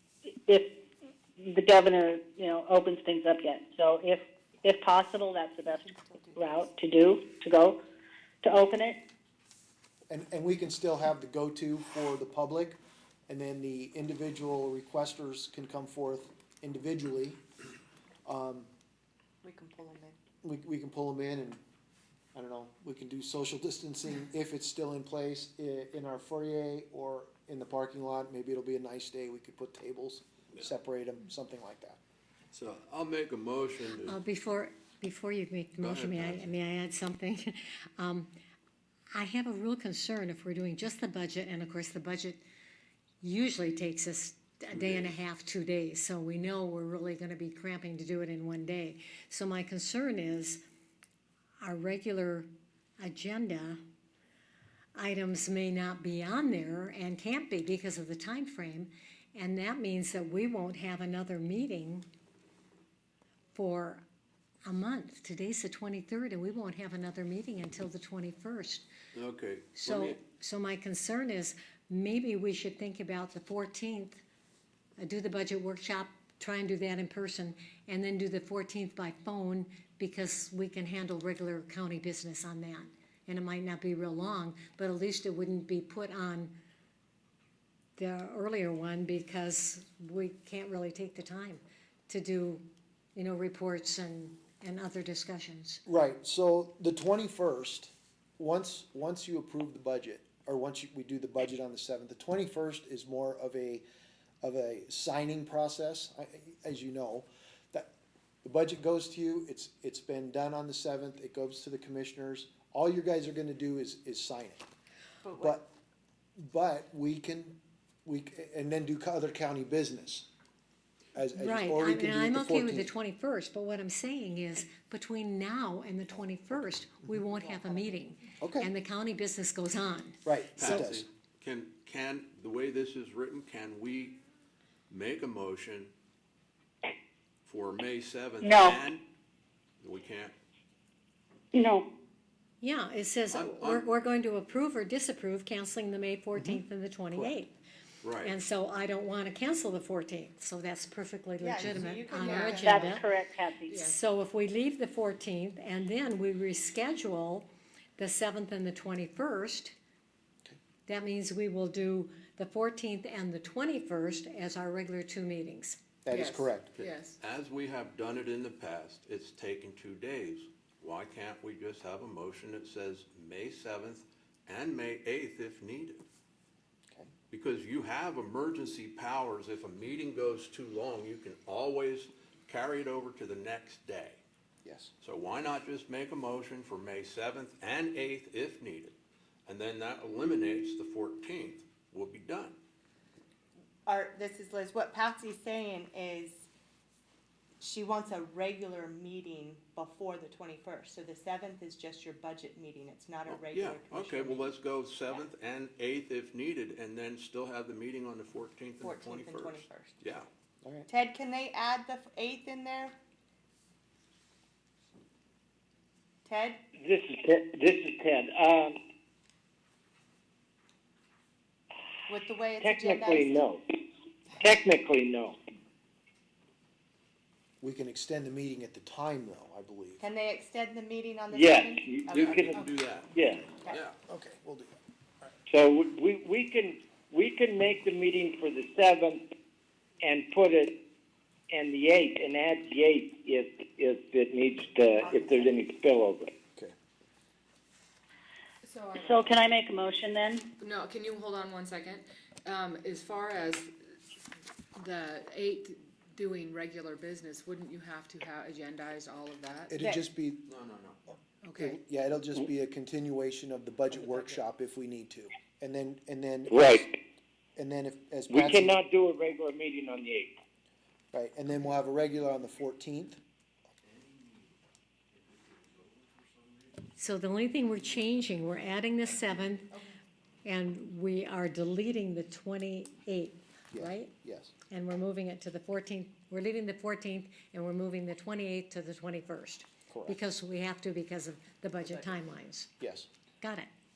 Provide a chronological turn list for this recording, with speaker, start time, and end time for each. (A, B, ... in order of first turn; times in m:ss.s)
0:01.4-0:07.8 A
0:05.6-0:06.7 B
0:08.4-0:09.0 A
0:10.1-0:17.4 C
0:18.2-0:18.7 C
0:19.4-0:20.2 B
0:20.4-0:21.6 C
0:22.3-0:32.0 C
0:32.5-0:34.2 D
0:34.0-0:38.3 E
0:35.8-0:36.5 D
0:39.1-0:42.4 E
0:43.2-0:50.6 E
0:44.7-0:45.2 D
0:51.6-0:52.5 E
0:53.0-0:53.8 E
0:54.9-1:02.0 E
1:03.5-1:04.0 E
1:04.6-1:08.9 E
1:09.1-1:10.2 D
1:09.8-1:14.2 E
1:15.0-1:26.5 E
1:28.0-1:35.8 E
1:35.8-1:43.8 C
1:44.4-1:47.9 C
1:48.4-1:54.6 C
1:55.2-1:55.6 B
1:55.4-1:55.7 C
1:56.4-2:00.3 C
2:01.1-2:02.9 C
2:01.4-2:10.8 E
2:06.1-2:07.1 C
2:07.3-2:08.0 B
2:08.4-2:08.7 C
2:10.2-2:11.0 C
2:10.6-2:14.2 D
2:14.9-2:15.9 D
2:17.4-2:19.0 D
2:18.4-2:18.8 A
2:19.8-2:20.4 D
2:21.5-2:21.9 A
2:22.6-2:27.5 E
2:23.3-2:23.9 D
2:26.4-2:26.6 C
2:28.0-2:28.4 D
2:28.2-2:33.1 E
2:31.4-2:33.0 B
2:32.1-2:32.6 F
2:32.6-2:33.9 A
2:33.7-2:34.0 F
2:33.8-2:39.7 E
2:40.9-2:45.8 E
2:46.0-2:46.7 C
2:46.1-2:47.2 F
2:46.8-2:56.0 D
2:57.3-3:04.2 D
3:04.6-3:04.9 C
3:05.0-3:08.9 D
3:09.5-3:12.6 D
3:13.8-3:16.5 B
3:17.6-3:24.6 B
3:23.3-3:30.3 D
3:28.8-3:30.0 B
3:30.9-3:33.0 B
3:36.2-3:36.6 B
3:36.7-3:38.8 G
3:42.1-3:43.3 B
3:42.6-3:43.6 G
3:44.4-3:45.4 G
3:47.6-3:50.0 C
3:50.0-3:52.7 B
3:51.3-3:53.4 G
3:52.1-3:53.1 D
3:53.7-3:54.0 D
3:54.1-3:55.3 C
3:55.5-3:59.2 G
4:00.0-4:00.8 G
4:01.5-4:06.3 G
4:08.6-4:09.3 F
4:09.0-4:10.5 A
4:10.6-4:13.7 F
4:14.7-4:19.7 F
4:19.7-4:20.5 C
4:19.8-4:20.0 B
4:20.4-4:21.0 D
4:21.4-4:21.8 F
4:21.6-4:26.9 C
4:26.5-4:26.9 G
4:27.6-4:28.8 C
4:28.3-4:30.3 G
4:31.1-4:33.2 C
4:33.9-4:34.5 D
4:35.1-4:36.9 D
4:37.0-4:39.7 E
4:40.4-4:44.1 E
4:43.7-4:44.5 C
4:44.7-4:52.7 E
4:49.9-4:50.2 C
4:52.8-4:53.1 C
4:53.4-4:53.7 E